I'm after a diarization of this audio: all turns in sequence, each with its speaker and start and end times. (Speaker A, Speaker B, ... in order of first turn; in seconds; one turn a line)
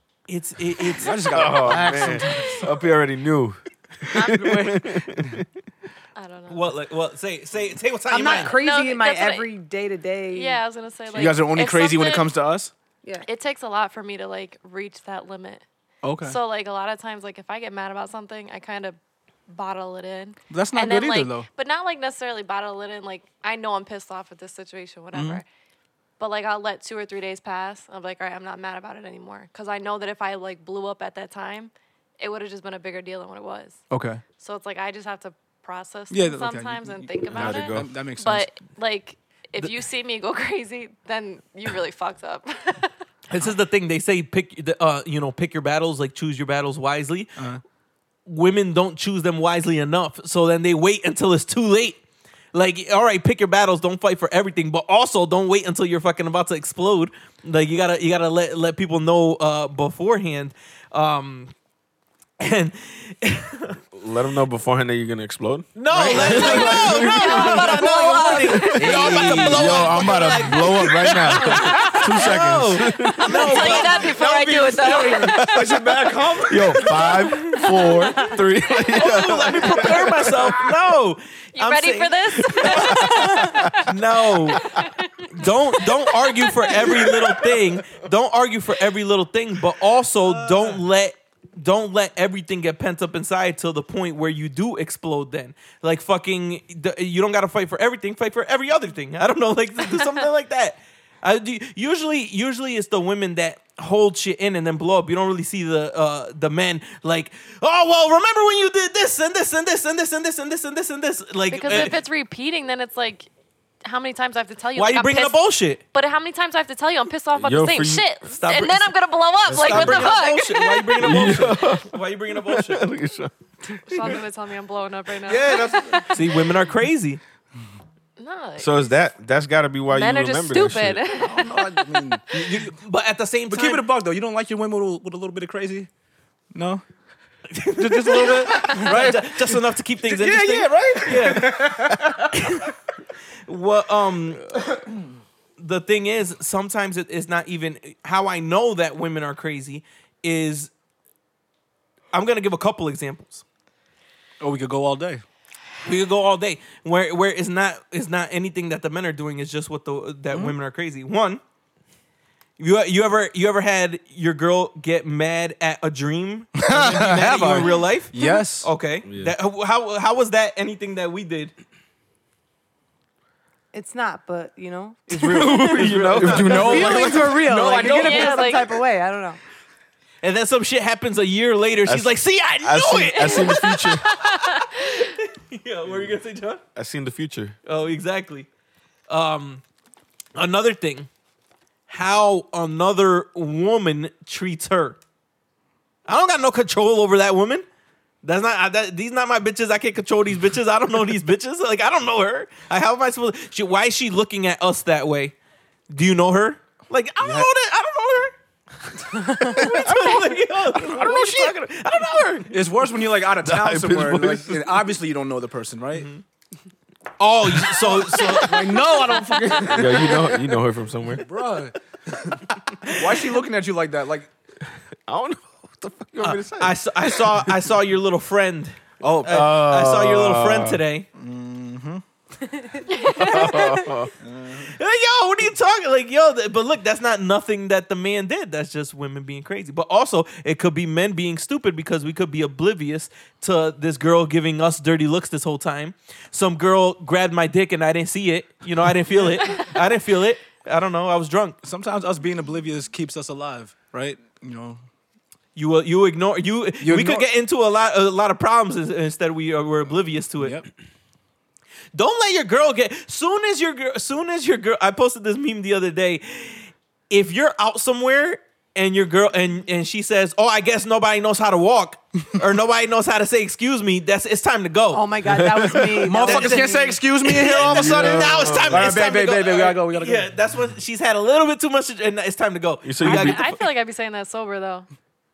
Speaker A: 0.3-1.8
Speaker B: 0.9-2.8
Speaker C: 1.3-5.5
Speaker D: 1.9-2.6
Speaker E: 4.2-4.7
Speaker D: 6.2-6.7
Speaker A: 6.5-8.6
Speaker E: 8.1-10.6
Speaker D: 8.5-9.5
Speaker D: 10.3-12.3
Speaker B: 11.1-12.7
Speaker D: 13.2-15.6
Speaker B: 16.0-16.4
Speaker D: 16.2-18.9
Speaker D: 19.5-25.4
Speaker B: 20.5-21.5
Speaker B: 25.1-25.4
Speaker D: 26.2-33.8
Speaker B: 33.9-34.2
Speaker D: 34.4-42.9
Speaker B: 36.1-38.5
Speaker C: 37.3-37.9
Speaker A: 43.3-47.4
Speaker B: 47.4-47.6
Speaker A: 48.2-52.0
Speaker A: 52.5-61.5
Speaker A: 62.4-63.8
Speaker C: 63.9-67.9
Speaker A: 65.7-74.2
Speaker D: 66.1-69.4
Speaker B: 66.1-66.5
Speaker C: 68.4-73.5
Speaker B: 68.8-72.0
Speaker D: 71.4-72.1
Speaker D: 73.2-75.8
Speaker B: 73.3-77.3
Speaker C: 75.2-75.7
Speaker C: 76.5-80.7
Speaker D: 76.8-80.1
Speaker E: 77.4-78.2
Speaker A: 78.9-83.1
Speaker D: 81.5-87.4
Speaker C: 82.5-83.7
Speaker E: 83.2-83.5
Speaker A: 83.8-84.7
Speaker A: 85.3-112.0
Speaker C: 86.9-87.3
Speaker B: 90.2-90.8
Speaker D: 111.5-113.3
Speaker D: 113.8-115.4
Speaker A: 114.8-115.8
Speaker D: 115.9-121.2
Speaker C: 117.4-118.1
Speaker A: 118.3-122.9
Speaker C: 119.5-120.2
Speaker C: 121.0-123.3
Speaker D: 123.8-126.5
Speaker A: 125.3-127.2
Speaker B: 125.5-126.0
Speaker D: 128.2-129.0
Speaker C: 128.6-131.0
Speaker D: 129.9-132.3
Speaker B: 131.1-132.8
Speaker A: 132.7-133.8
Speaker B: 133.5-135.9
Speaker B: 136.5-136.8
Speaker A: 137.5-142.7
Speaker B: 137.8-142.6
Speaker A: 143.4-144.6
Speaker A: 145.6-150.7
Speaker A: 152.1-153.4
Speaker B: 154.4-155.2
Speaker A: 155.8-161.4
Speaker A: 162.6-171.5
Speaker B: 166.6-168.7
Speaker C: 169.1-169.3
Speaker E: 173.7-179.4
Speaker C: 175.1-177.1
Speaker B: 175.4-178.4
Speaker A: 175.6-177.9
Speaker D: 177.8-178.7
Speaker A: 180.2-186.6
Speaker C: 181.8-184.1
Speaker D: 183.1-185.1
Speaker C: 186.7-187.6
Speaker A: 187.7-188.5
Speaker A: 189.1-189.6
Speaker A: 190.3-191.1
Speaker A: 191.9-195.0
Speaker A: 196.1-197.6
Speaker A: 198.2-205.3
Speaker A: 205.9-208.3
Speaker B: 207.2-207.5
Speaker A: 208.9-212.7
Speaker E: 209.1-209.7
Speaker C: 209.7-210.1
Speaker B: 210.8-211.5
Speaker B: 212.5-216.1
Speaker C: 213.4-214.9
Speaker A: 215.9-216.2
Speaker A: 217.2-218.8
Speaker B: 217.6-220.5
Speaker D: 218.6-219.6
Speaker C: 219.6-221.2
Speaker B: 221.1-224.3
Speaker A: 222.8-223.2
Speaker C: 225.1-227.6
Speaker A: 226.2-231.1
Speaker B: 229.0-229.5
Speaker C: 229.2-230.8
Speaker B: 231.2-232.0
Speaker E: 232.4-234.0
Speaker D: 232.9-233.5
Speaker C: 233.1-234.1
Speaker B: 234.2-234.7
Speaker A: 234.6-251.6
Speaker B: 251.6-254.8
Speaker A: 255.6-260.6
Speaker B: 256.8-257.2
Speaker B: 260.4-260.7
Speaker A: 261.9-275.1
Speaker E: 274.9-277.0
Speaker C: 275.4-275.9
Speaker B: 275.9-280.2
Speaker A: 276.1-283.5
Speaker C: 277.6-279.0
Speaker C: 282.8-283.6
Speaker D: 283.0-284.9